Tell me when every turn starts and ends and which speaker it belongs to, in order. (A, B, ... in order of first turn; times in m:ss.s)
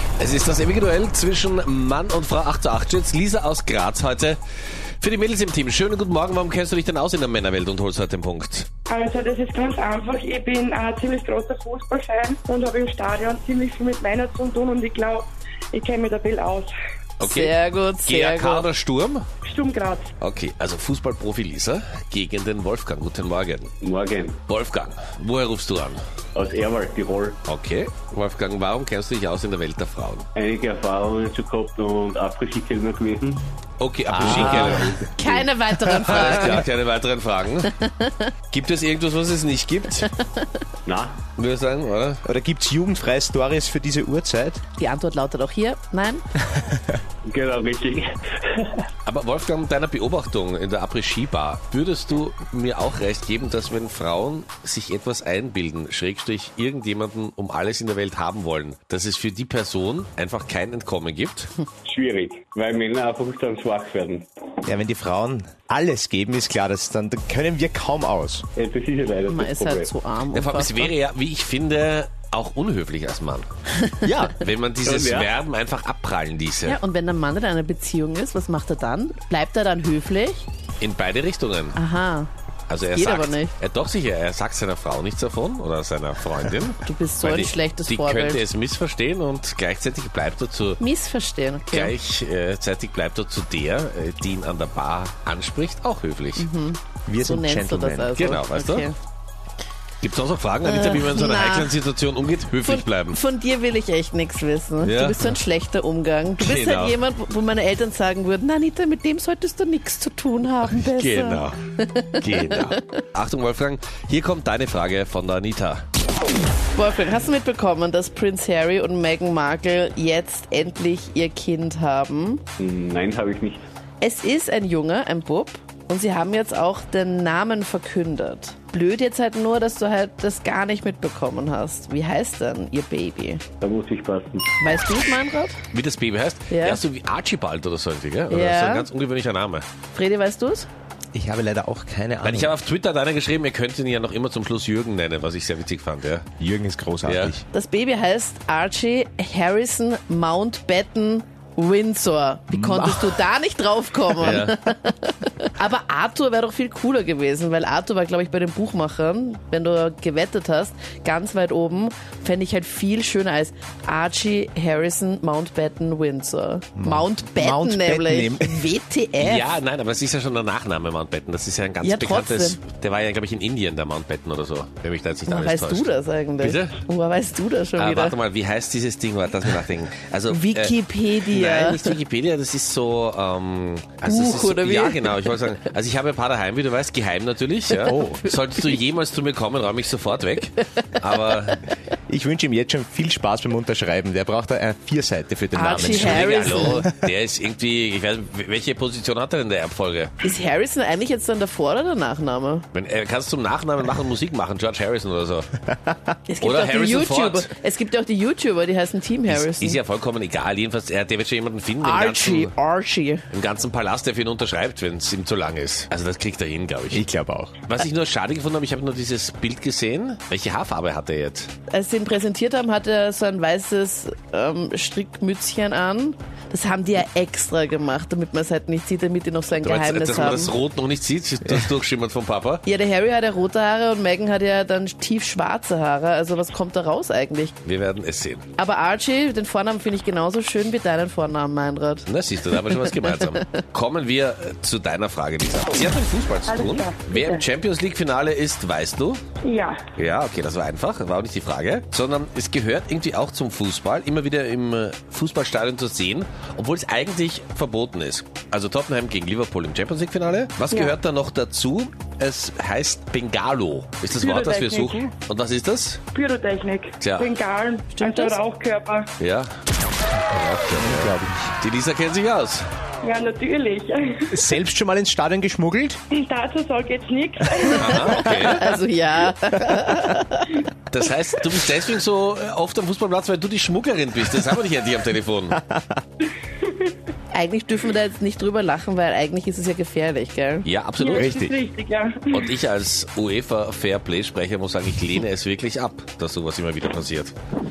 0:00.2-0:04.4 A
0:05.0-0:08.7 A
0:08.9-0:16.7 B
0:17.2-0:17.5 A
0:17.2-0:18.7 C
0:18.0-0:19.2 A
0:19.4-0:20.1 B
0:20.2-0:23.7 A
0:23.8-0:24.4 D
0:24.5-0:26.0 A
0:26.3-0:27.4 D
0:27.4-0:30.3 A
0:30.3-0:33.4 D
0:33.8-0:35.0 A
0:34.1-0:35.0 E
0:34.2-0:35.1 D
0:34.2-0:36.6 C
0:35.8-0:36.4 E
0:36.0-0:37.7 A
0:37.8-0:38.3 C
0:38.5-0:40.1 A
0:40.1-0:40.4 C
0:40.8-0:41.2 D
0:41.4-0:42.2 A
0:42.2-0:44.6 E
0:44.8-0:46.3 C
0:46.6-0:46.8 E
0:47.2-0:48.8 D
0:49.0-1:01.5 A
1:01.8-1:04.3 D
1:04.6-1:08.4 E
1:08.6-1:09.9 D
1:09.3-1:10.9 C
1:10.3-1:13.5 A
1:13.8-1:14.1 C
1:14.0-1:14.3 E
1:14.1-1:16.8 A
1:14.8-1:15.3 D
1:16.6-1:20.5 C
1:20.8-1:21.8 A
1:21.8-1:22.3 C
1:22.7-1:30.8 A
1:22.8-1:23.5 C
1:26.8-1:28.4 C
1:30.8-1:31.9 C
1:31.7-1:36.5 A
1:36.4-1:39.0 C
1:37.1-1:38.1 E
1:38.1-1:38.9 A
1:40.0-1:43.2 A
1:40.6-1:41.8 C
1:42.6-1:53.0 C
1:44.8-1:45.4 A
1:46.4-1:47.0 A
1:50.6-1:51.6 A
1:52.2-1:55.8 A
1:56.7-2:02.4 C
2:02.6-2:03.6 D
2:04.0-2:13.4 C
2:13.6-2:14.5 D
2:14.6-2:15.6 C
2:15.7-2:19.7 A
2:16.5-2:16.8 C
2:18.3-2:18.9 C
2:19.9-2:20.7 C
2:21.1-2:22.5 E
2:22.2-2:26.3 A
2:26.4-2:27.4 E
2:27.0-2:27.4 A
2:27.5-2:49.5 C
2:32.5-2:33.2 E
2:34.2-2:34.6 A
2:46.8-2:48.7 E
2:49.2-2:56.8 A
2:51.8-2:52.6 C
2:55.3-2:58.2 C
2:57.8-3:11.6 A
3:00.3-3:02.0 C
3:04.0-3:05.2 C
3:07.8-3:08.1 C
3:07.8-3:08.3 E
3:12.1-3:16.9 E
3:15.5-3:16.8 C
3:15.6-3:20.1 A
3:20.2-3:22.7 C
3:22.7-3:25.5 A
3:25.7-3:26.0 E
3:26.3-3:29.8 C
3:26.4-3:27.5 A
3:29.3-3:32.5 A
3:31.8-3:33.2 C
3:33.3-3:37.0 A
3:36.9-3:37.5 E
3:37.7-3:41.5 A
3:41.7-3:50.5 C
3:49.6-3:52.6 A
3:52.7-3:57.5 C
3:57.6-3:58.4 A
3:58.6-4:03.1 C
4:02.1-4:09.2 A
4:06.5-4:07.5 B
4:09.4-4:09.9 B
4:10.0-4:26.0 A
4:20.7-4:21.0 B
4:24.2-4:25.0 B
4:26.1-4:29.1 B
4:27.0-4:27.3 A
4:28.0-4:28.4 C
4:29.2-4:29.5 A
4:30.3-4:32.7 A
4:30.7-4:31.6 E
4:33.0-4:34.3 B
4:34.3-4:36.0 E
4:36.1-4:38.2 B
4:37.8-4:38.7 A
4:37.8-4:40.7 C
4:40.9-4:45.6 A
4:45.5-4:46.0 E
4:47.3-4:50.7 C
4:50.6-4:51.5 A
4:51.0-4:52.4 B
4:51.1-4:51.5 E
4:52.3-4:57.3 A